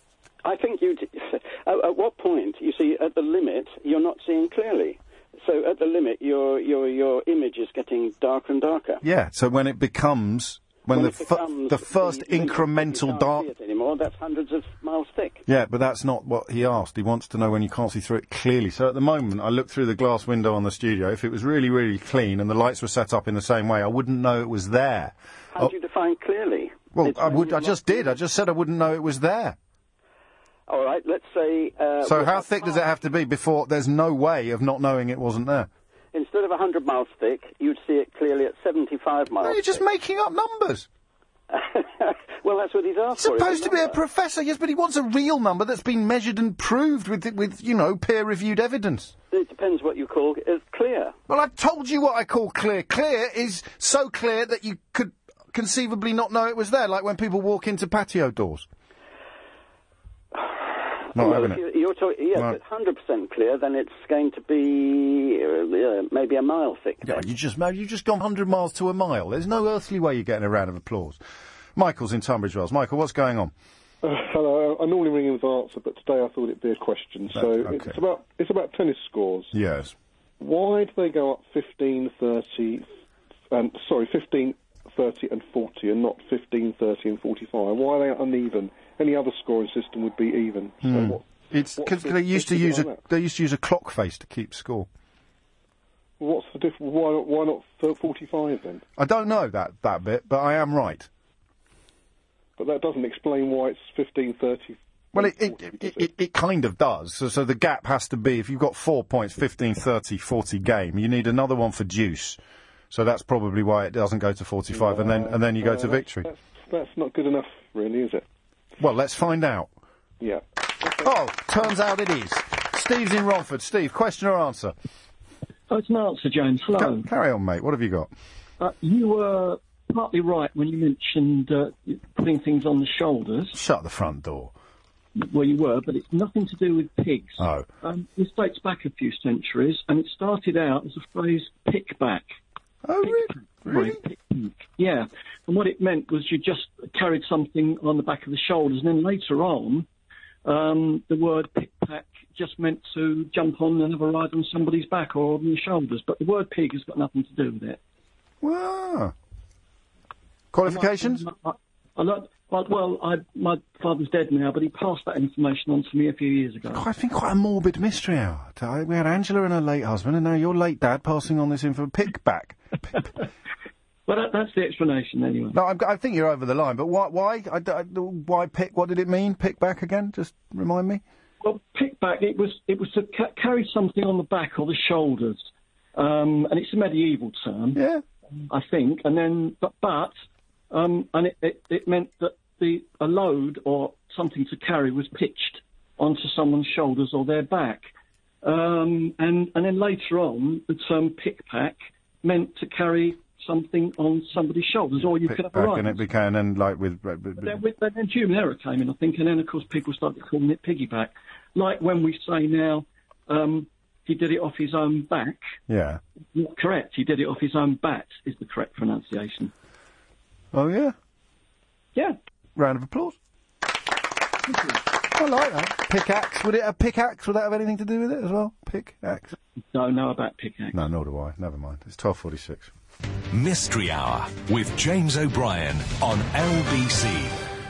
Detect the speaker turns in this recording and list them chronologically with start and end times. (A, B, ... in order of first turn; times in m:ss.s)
0:00.4-0:09.0 A
0:09.0-0:13.5 B
0:10.9-0:15.4 A
0:15.5-0:25.7 B
0:25.5-0:28.2 A
0:26.9-0:29.6 B
0:30.7-0:32.9 A
0:32.0-0:35.7 B
0:36.1-0:39.8 A
0:39.4-0:40.9 B
0:41.5-0:44.0 A
0:43.1-0:49.1 B
0:49.3-0:51.1 A
0:51.3-0:58.7 B
1:00.3-1:07.2 A
1:01.1-1:01.6 B
1:02.3-1:02.6 B
1:07.0-1:11.2 B
1:11.8-1:13.5 B
1:14.0-1:19.5 C
1:17.3-1:18.0 B
1:19.5-1:19.9 B
1:20.4-1:22.9 C
1:23.5-1:33.0 C
1:30.8-1:34.9 B
1:36.2-1:38.8 C
1:39.0-1:41.1 B
1:42.6-1:46.1 C
1:45.1-1:52.4 B
1:52.9-1:56.3 B
1:54.7-1:58.2 C
1:58.8-1:59.7 B
2:00.2-2:01.1 C
2:01.0-2:04.8 B
2:05.7-2:07.1 D
2:06.8-2:08.1 B
2:08.6-2:13.6 D
2:13.5-2:14.5 B
2:15.2-2:22.3 D
2:17.4-2:17.7 B
2:22.8-2:24.0 B
2:23.0-2:29.9 D
2:30.4-2:37.8 D
2:38.4-2:39.1 B
2:40.5-2:41.3 B
2:40.6-2:46.8 D
2:46.7-2:53.0 B
2:54.1-2:55.6 D
2:55.5-3:01.0 B
3:01.4-3:05.4 D
3:05.9-3:07.8 D
3:07.8-3:08.0 B
3:08.5-3:10.1 D
3:10.7-3:17.8 D
3:18.4-3:26.0 D
3:25.2-3:27.6 B
3:27.4-3:35.4 D
3:35.7-3:36.0 B
3:36.4-3:39.5 D
3:40.5-3:40.9 B
3:42.6-3:43.2 B
3:44.5-3:44.8 D
3:45.1-3:49.4 B
3:49.7-3:50.8 D
3:50.7-3:52.7 B
3:53.3-3:57.4 E